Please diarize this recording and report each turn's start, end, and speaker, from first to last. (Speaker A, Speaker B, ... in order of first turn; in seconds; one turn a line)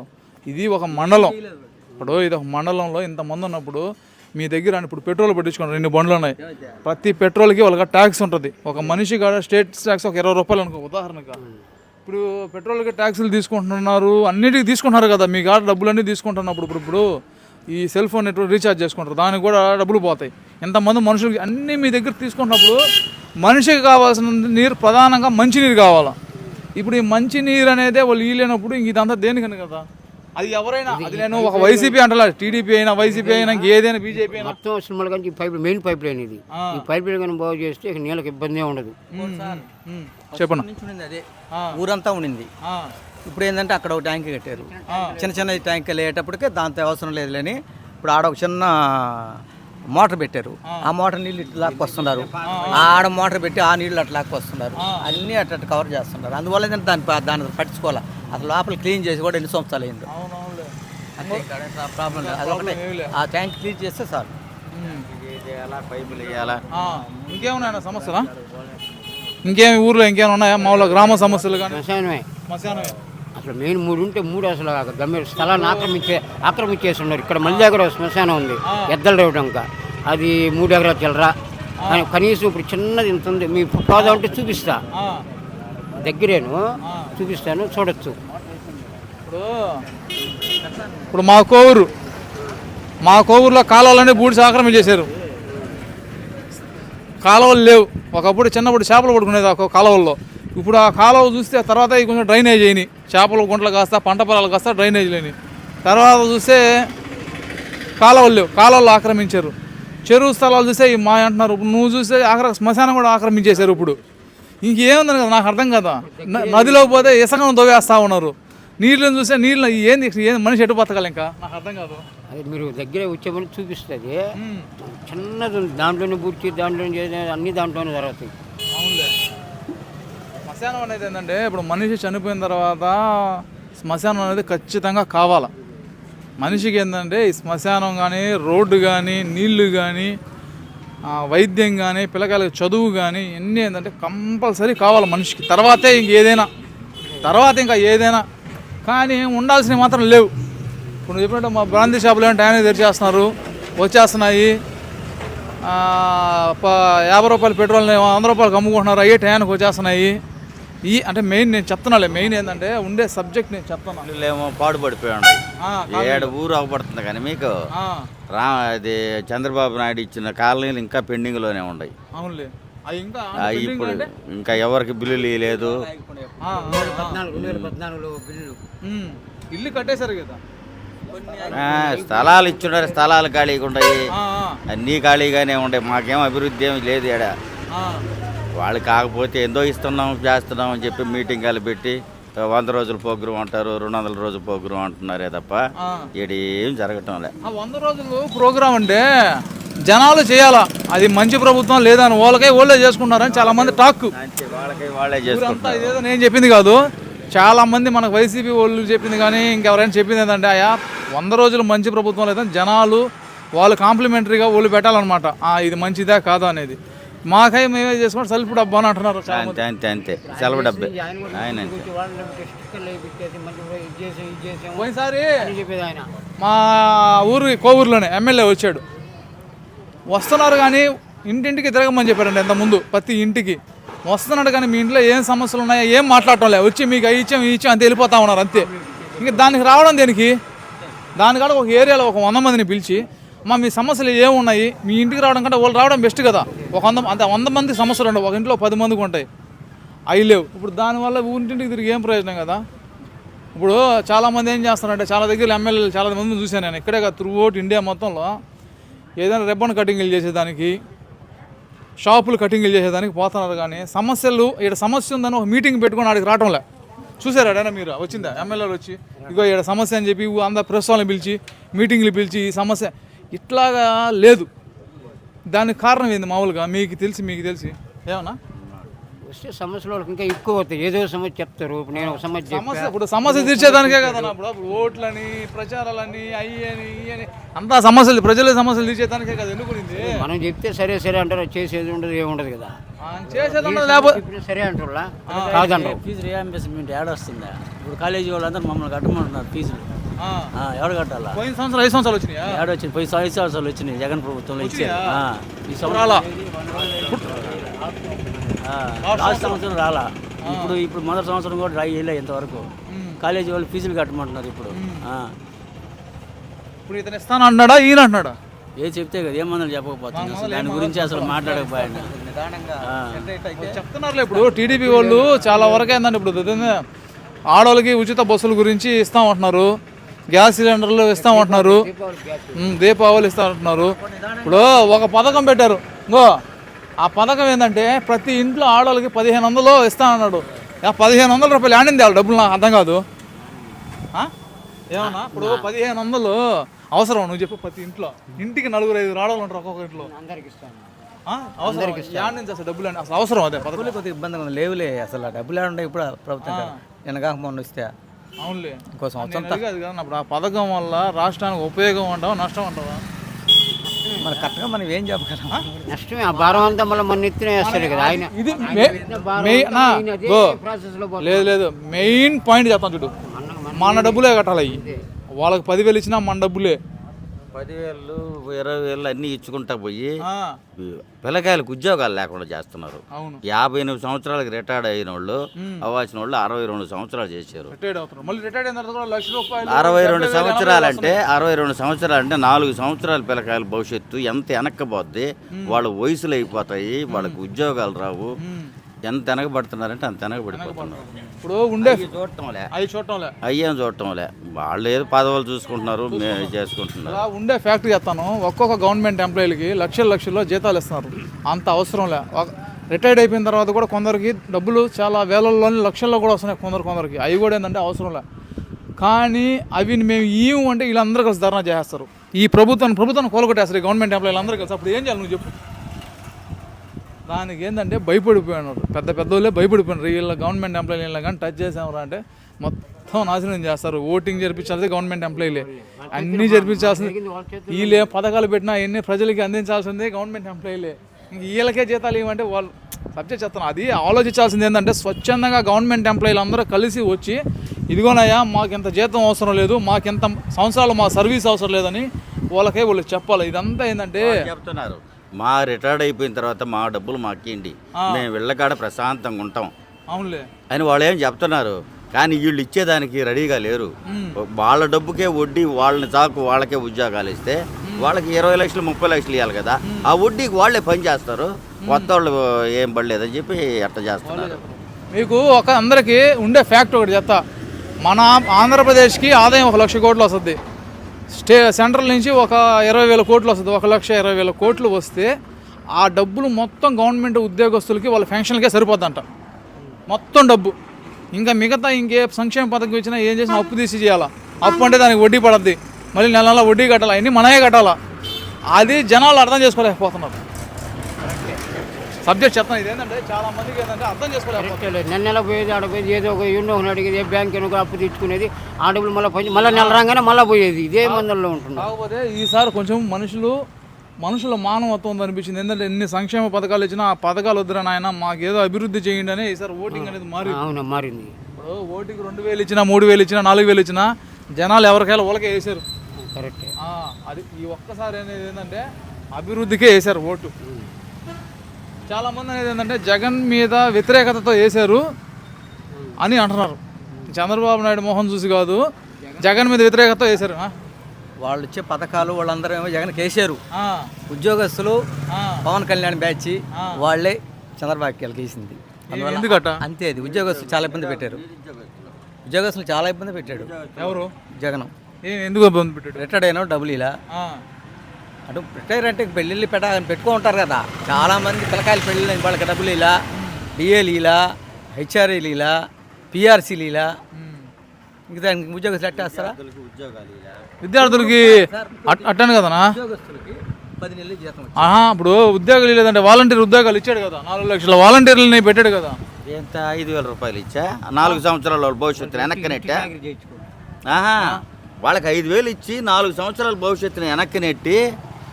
Speaker A: 0.5-1.4
Speaker B: 0.9-1.8
Speaker A: 2.0-11.4
Speaker B: 6.4-6.8
Speaker C: 11.4-11.6
Speaker A: 12.1-17.1
Speaker A: 17.7-22.8
Speaker A: 23.4-26.1
Speaker A: 26.8-29.9
Speaker A: 30.4-34.6
Speaker C: 30.9-32.0
Speaker C: 33.0-39.0
Speaker A: 36.5-36.8
Speaker B: 39.1-39.7
Speaker A: 39.1-40.6
Speaker B: 40.3-42.5
Speaker A: 41.5-41.8
Speaker A: 42.6-42.9
Speaker B: 43.2-60.1
Speaker C: 44.5-45.7
Speaker A: 44.9-45.2
Speaker D: 51.7-53.0
Speaker A: 52.4-52.9
Speaker A: 54.8-55.1
Speaker A: 60.1-61.5
Speaker B: 61.2-64.3
Speaker A: 62.1-63.1
Speaker A: 64.7-65.1
Speaker D: 65.1-66.6
Speaker A: 66.7-68.3
Speaker A: 69.4-71.8
Speaker D: 70.7-71.6
Speaker C: 71.6-72.3
Speaker A: 72.5-72.9
Speaker C: 73.3-84.8
Speaker A: 75.4-75.9
Speaker A: 77.4-77.7
Speaker A: 78.7-79.0
Speaker A: 81.8-82.0
Speaker A: 83.9-84.2
Speaker A: 84.9-85.2
Speaker C: 86.0-88.2
Speaker A: 86.8-87.1
Speaker A: 89.2-89.8
Speaker B: 90.5-91.1
Speaker A: 91.1-91.9
Speaker A: 93.0-95.1
Speaker A: 97.2-106.6
Speaker A: 108.0-109.5
Speaker A: 110.0-114.0
Speaker A: 114.6-122.0
Speaker C: 116.0-117.2
Speaker C: 122.3-124.2
Speaker A: 124.4-124.7
Speaker C: 124.9-128.3
Speaker A: 128.7-129.1
Speaker A: 130.4-135.5
Speaker A: 136.4-140.2
Speaker A: 141.1-146.5
Speaker C: 147.1-147.4
Speaker A: 147.2-148.2
Speaker A: 148.8-150.3
Speaker A: 151.1-154.6
Speaker A: 155.6-160.2
Speaker A: 160.8-164.1
Speaker D: 164.0-165.4
Speaker A: 165.6-166.3
Speaker D: 165.9-167.5
Speaker A: 167.7-168.1
Speaker D: 168.3-171.9
Speaker A: 172.1-174.1
Speaker D: 173.4-175.8
Speaker B: 175.2-176.9
Speaker A: 176.4-177.2
Speaker C: 176.7-178.6
Speaker D: 177.3-177.7
Speaker A: 178.8-180.4
Speaker B: 181.1-182.0
Speaker C: 181.3-183.1
Speaker D: 181.5-184.0
Speaker A: 184.1-184.6
Speaker D: 184.7-187.3
Speaker A: 187.7-188.0
Speaker D: 188.6-195.6
Speaker A: 195.8-196.1
Speaker D: 196.2-197.3
Speaker A: 197.4-199.0
Speaker A: 199.8-204.1
Speaker D: 203.2-206.0
Speaker A: 205.2-206.8
Speaker A: 207.3-213.0
Speaker A: 213.6-216.8
Speaker A: 217.3-219.6
Speaker D: 219.3-221.9
Speaker C: 220.2-226.1
Speaker A: 224.8-225.4
Speaker A: 226.4-228.8
Speaker A: 230.1-240.3
Speaker C: 238.6-239.5
Speaker A: 241.2-249.2
Speaker A: 250.1-252.6
Speaker A: 253.6-258.4
Speaker A: 259.2-260.8
Speaker A: 262.0-266.6
Speaker A: 267.2-274.5
Speaker C: 268.1-268.5
Speaker C: 269.2-269.4
Speaker A: 275.5-278.4
Speaker C: 279.3-284.3
Speaker A: 281.9-290.2
Speaker C: 289.9-292.8
Speaker A: 293.0-294.2
Speaker C: 293.3-296.0
Speaker A: 295.3-295.7
Speaker E: 295.3-299.9
Speaker A: 300.2-300.5
Speaker E: 300.5-301.4
Speaker A: 301.3-302.7
Speaker E: 302.4-315.3
Speaker A: 304.6-305.2
Speaker A: 305.8-306.2
Speaker A: 309.0-309.6
Speaker A: 310.4-310.8
Speaker A: 312.9-313.2
Speaker A: 314.7-315.1
Speaker A: 316.9-318.4
Speaker E: 318.8-322.1
Speaker A: 320.1-321.7
Speaker B: 321.3-323.8
Speaker E: 322.8-323.3
Speaker A: 323.6-326.8
Speaker C: 324.5-325.9
Speaker B: 325.1-325.8
Speaker A: 327.5-329.7
Speaker A: 330.3-331.9
Speaker C: 331.1-332.8
Speaker A: 332.6-336.4
Speaker B: 333.7-335.4
Speaker A: 337.0-343.0
Speaker A: 344.9-346.4
Speaker C: 344.9-345.7
Speaker A: 346.9-350.1
Speaker C: 350.0-350.9
Speaker A: 351.3-353.9
Speaker C: 351.6-352.4
Speaker B: 353.6-357.9
Speaker A: 356.4-356.8
Speaker A: 358.4-363.0
Speaker B: 359.0-359.6
Speaker C: 363.9-364.5
Speaker B: 364.2-367.0
Speaker C: 365.9-371.6
Speaker A: 367.6-370.6
Speaker B: 368.8-369.1
Speaker A: 371.2-373.1
Speaker C: 373.2-375.0
Speaker A: 373.7-374.8
Speaker A: 375.4-376.8
Speaker D: 377.5-380.1
Speaker A: 380.2-380.6
Speaker D: 380.8-387.7
Speaker A: 383.1-383.4
Speaker A: 385.6-385.8
Speaker A: 387.7-391.2
Speaker D: 389.7-398.3
Speaker A: 395.5-395.8
Speaker A: 397.1-397.4
Speaker A: 398.4-398.7
Speaker D: 399.0-401.1
Speaker A: 400.5-402.1
Speaker D: 401.8-402.7
Speaker A: 402.7-403.3
Speaker D: 403.4-407.2
Speaker A: 406.1-418.2
Speaker A: 419.0-425.5
Speaker A: 427.3-437.1
Speaker C: 435.3-438.1
Speaker A: 437.7-454.4
Speaker D: 454.2-459.7
Speaker A: 457.9-458.2
Speaker A: 460.1-460.5
Speaker D: 460.7-474.6
Speaker A: 464.1-464.4
Speaker A: 467.8-468.1
Speaker A: 469.8-470.1
Speaker A: 471.8-472.1
Speaker A: 474.3-477.4
Speaker A: 478.0-480.6
Speaker A: 481.3-485.3
Speaker A: 485.9-489.2
Speaker A: 490.1-490.7
Speaker A: 491.3-498.0
Speaker A: 498.7-500.4
Speaker C: 501.2-501.6
Speaker A: 502.2-504.9
Speaker C: 504.6-511.9
Speaker A: 509.6-510.0
Speaker A: 511.8-513.5
Speaker A: 514.2-520.6
Speaker C: 519.9-521.4
Speaker A: 521.5-525.8
Speaker C: 526.1-526.7
Speaker A: 526.8-530.5
Speaker C: 530.6-530.9
Speaker A: 532.1-535.0
Speaker C: 535.9-536.2
Speaker A: 536.2-538.8
Speaker A: 539.4-540.7
Speaker B: 541.4-543.6
Speaker A: 543.7-544.1
Speaker B: 544.3-545.0
Speaker A: 545.3-545.6
Speaker B: 545.6-551.4
Speaker A: 546.7-547.0
Speaker A: 549.1-549.8
Speaker D: 550.2-552.2
Speaker B: 552.4-553.7
Speaker D: 553.4-554.2
Speaker A: 554.0-554.3
Speaker B: 554.6-554.9
Speaker A: 555.2-556.3
Speaker B: 556.2-557.1
Speaker A: 557.3-557.6
Speaker B: 558.5-563.2
Speaker A: 563.3-563.7
Speaker B: 563.7-564.4
Speaker B: 564.9-565.7
Speaker B: 566.3-567.1
Speaker A: 567.3-567.7
Speaker B: 568.3-569.5
Speaker D: 569.1-570.7
Speaker A: 570.8-572.9
Speaker B: 571.0-574.9
Speaker A: 574.8-579.2
Speaker D: 579.4-583.1
Speaker C: 582.1-583.6
Speaker D: 584.1-588.0